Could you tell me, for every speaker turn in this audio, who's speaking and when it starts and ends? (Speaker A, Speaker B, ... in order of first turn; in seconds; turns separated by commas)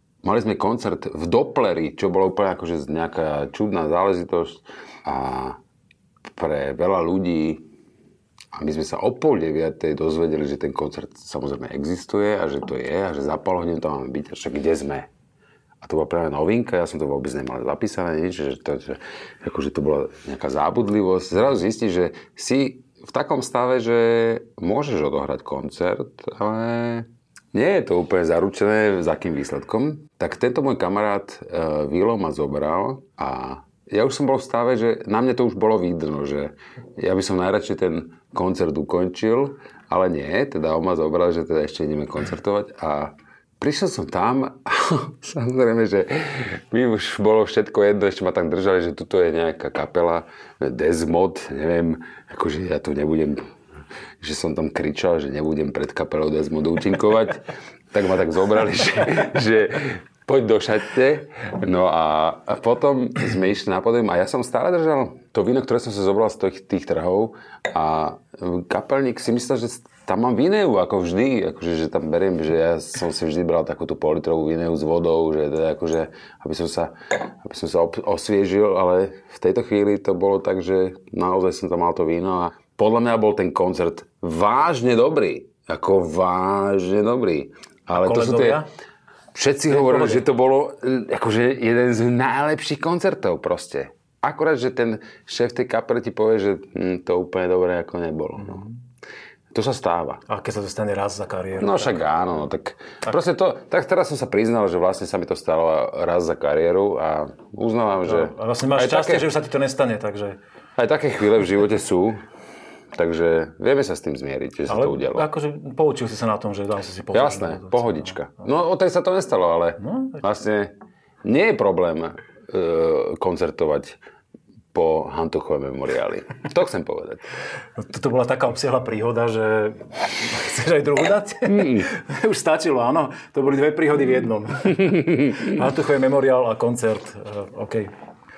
Speaker A: 0.2-5.6, Speaker A: 6.4-7.7, Speaker A: 8.5-15.1, Speaker A: 15.8-53.4, Speaker A: 54.2-88.6, Speaker B: 87.9-88.7, Speaker A: 89.3-98.7, Speaker B: 89.7-90.2, Speaker B: 98.4-98.7, Speaker A: 99.5-100.2, Speaker B: 100.3-102.0, Speaker A: 101.6-109.3, Speaker B: 108.0-110.4, Speaker A: 110.8-112.2, Speaker A: 112.9-115.3, Speaker B: 114.7-118.2, Speaker A: 117.1-120.7, Speaker B: 119.8-120.2, Speaker A: 121.2-124.0, Speaker A: 124.7-127.3, Speaker B: 127.8-137.9, Speaker A: 131.5-131.9, Speaker A: 134.7-135.5